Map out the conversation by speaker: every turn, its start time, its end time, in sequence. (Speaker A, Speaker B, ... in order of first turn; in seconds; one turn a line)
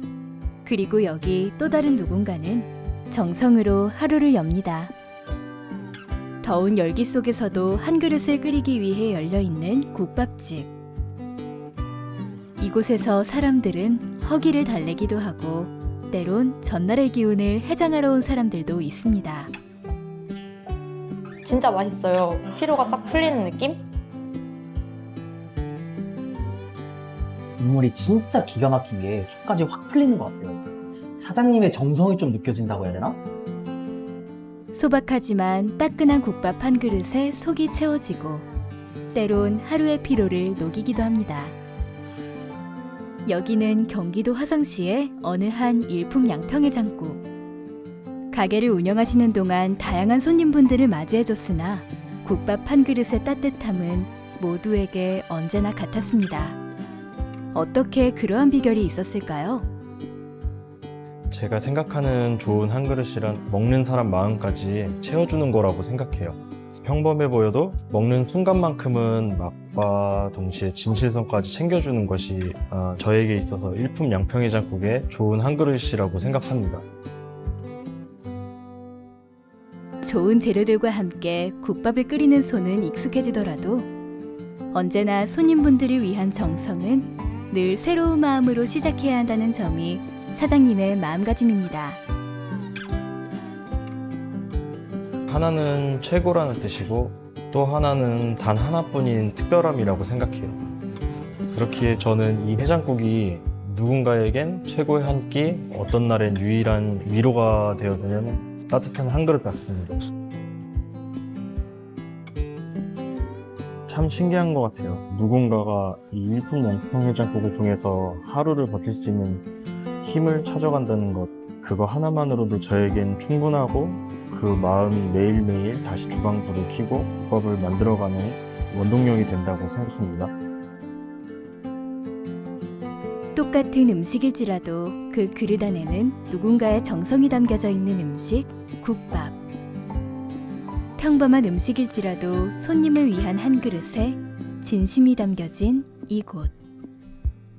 Speaker A: 0.6-4.9
Speaker A: 6.4-10.7
Speaker A: 12.6-19.5
Speaker B: 21.4-23.8
Speaker C: 27.6-33.2
Speaker A: 34.7-38.5
Speaker A: 39.1-41.5
Speaker A: 43.2-47.2
Speaker A: 48.3-56.6
Speaker A: 57.5-59.7
Speaker D: 61.3-76.8
Speaker A: 80.0-83.9
Speaker A: 84.7-92.0
Speaker D: 95.3-100.6
Speaker D: 101.5-110.0
Speaker D: 113.9-119.5
Speaker D: 120.0-130.3
Speaker A: 133.3-139.4
Speaker A: 141.0-146.5